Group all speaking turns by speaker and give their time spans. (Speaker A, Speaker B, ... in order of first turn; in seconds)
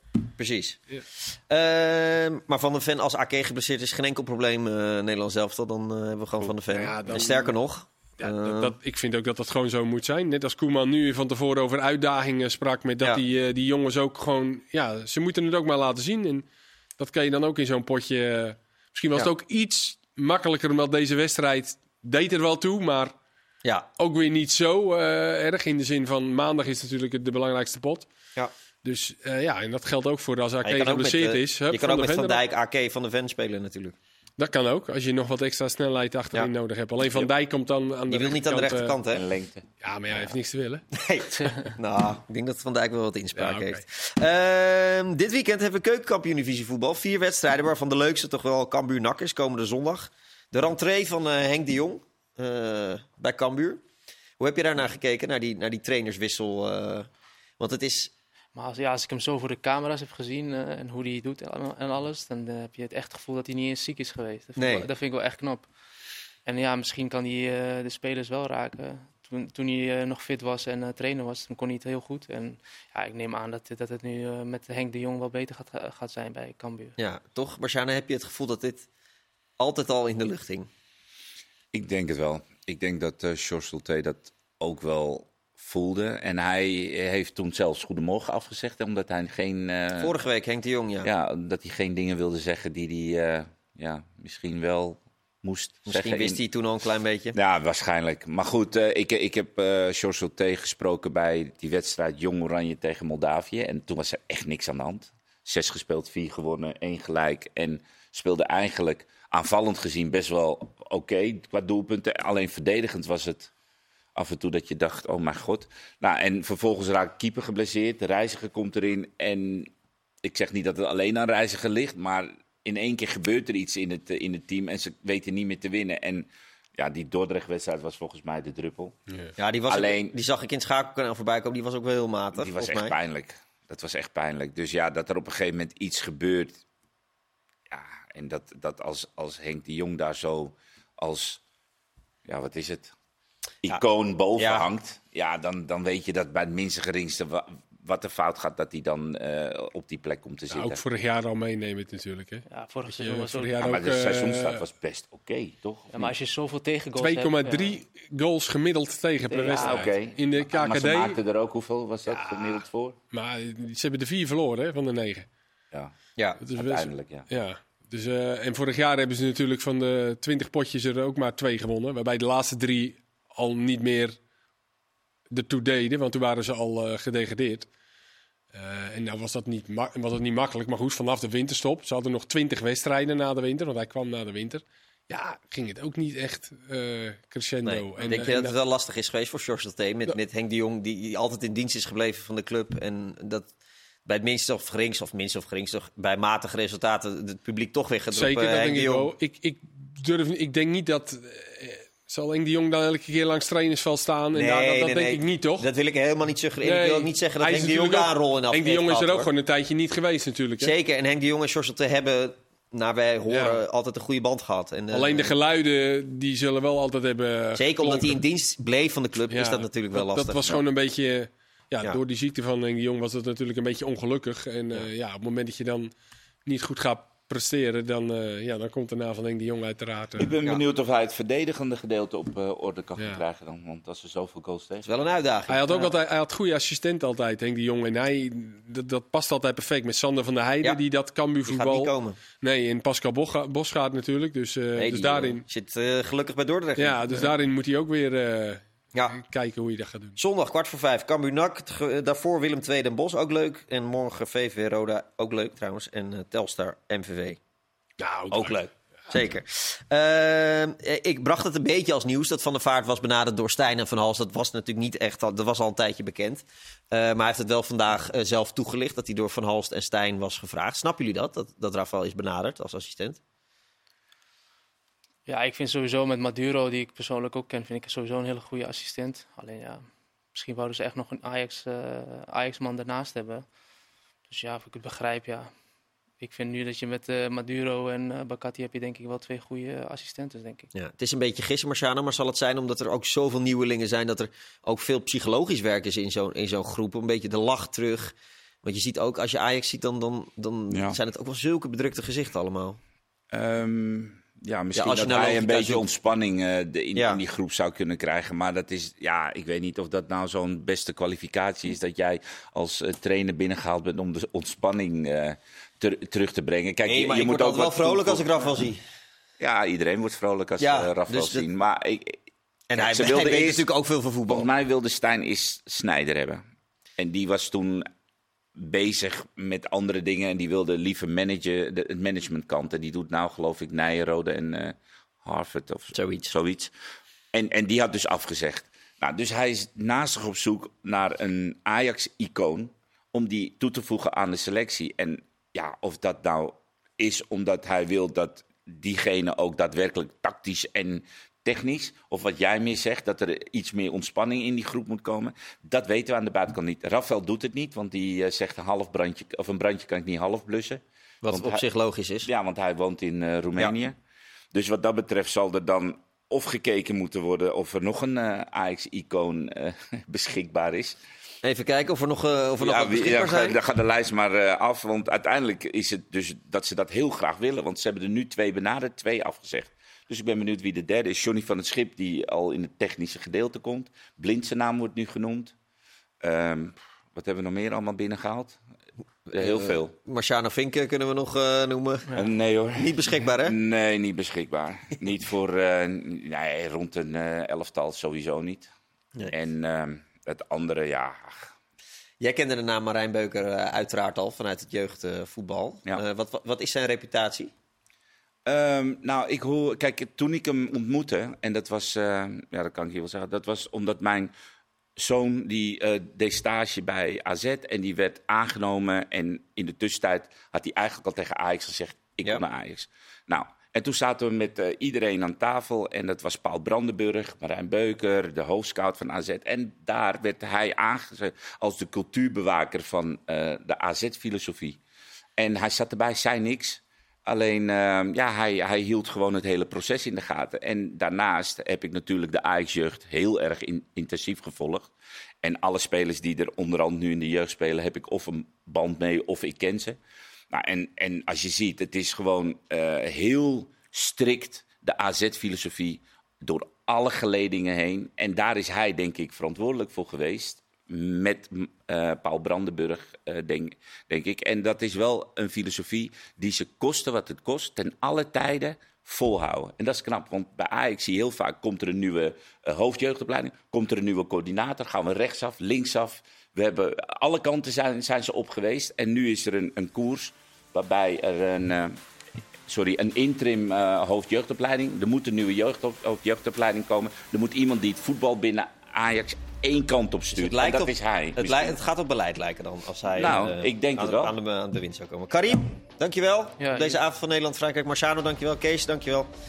Speaker A: 0.4-8.8, 30.6-34.0, 38.1-39.2, 40.9-53.8, 54.4-57.1, 57.6-58.1, 64.6-64.9, 77.0-78.9, 79.6-80.7, 90.0-91.1, 95.9-97.4, 129.4-132.9, 144.4-144.7, 187.6-193.5, 194.1-199.1, 204.3-209.3, 210.6-215.4, 217.6-220.6, 234.8-235.9, 241.4-242.2, 244.8-247.3, 250.2-257.4, 259.1-273.2, 290.7-302.8, 304.8-305.9, 306.9-307.2, 316.9-318.8, 320.6-321.4, 322.7-324.5, 335.9-336.3, 361.2-362.3, 371.4-373.6, 389.3-393.6, 402.2-407.5, 490.4-499.3
Speaker B: 6.7-7.5, 8.2-16.5, 17.0-23.1, 24.0-28.1, 28.8-32.4, 34.4-39.0, 39.8-40.8, 43.4-43.8, 150.5-154.6, 157.0-161.2, 162.1-165.3, 166.4-174.2, 175.3-177.7, 178.5-188.5, 198.1-205.7, 206.6-210.7, 213.3-213.6, 214.9-218.2, 219.3-225.9, 226.4-230.3, 233.0-233.2, 235.5-245.4, 246.8-250.2, 258.0-258.7
Speaker C: 37.0-37.3, 39.1-39.7, 81.7-90.1, 91.0-96.4, 97.3-113.5, 114.2-119.7, 120.2-129.0, 129.7-130.1, 132.4-136.6, 137.7-141.4, 142.3-142.9, 143.6-150.8, 153.6-156.1, 159.5-163.0, 166.5-167.3, 230.2-234.9, 300.7-301.0, 303.3-318.3, 319.4-322.2, 322.7-323.7, 324.3-326.4, 327.0-327.9, 328.6-336.7, 337.3-361.6, 362.2-363.9, 364.5-371.0, 372.6-385.5, 386.2-388.6, 389.3-389.9, 392.1-398.7, 399.3-401.5, 408.5-414.3, 415.0-434.8, 435.4-444.9, 445.4-450.0, 450.5-482.0, 482.7-491.8, 493.1-494.3
Speaker D: 58.5-65.7, 66.5-77.0, 152.5-153.6, 155.9-157.8, 159.3-159.9, 275.3-283.4, 284.3-285.5, 286.2-290.7, 496.6-497.0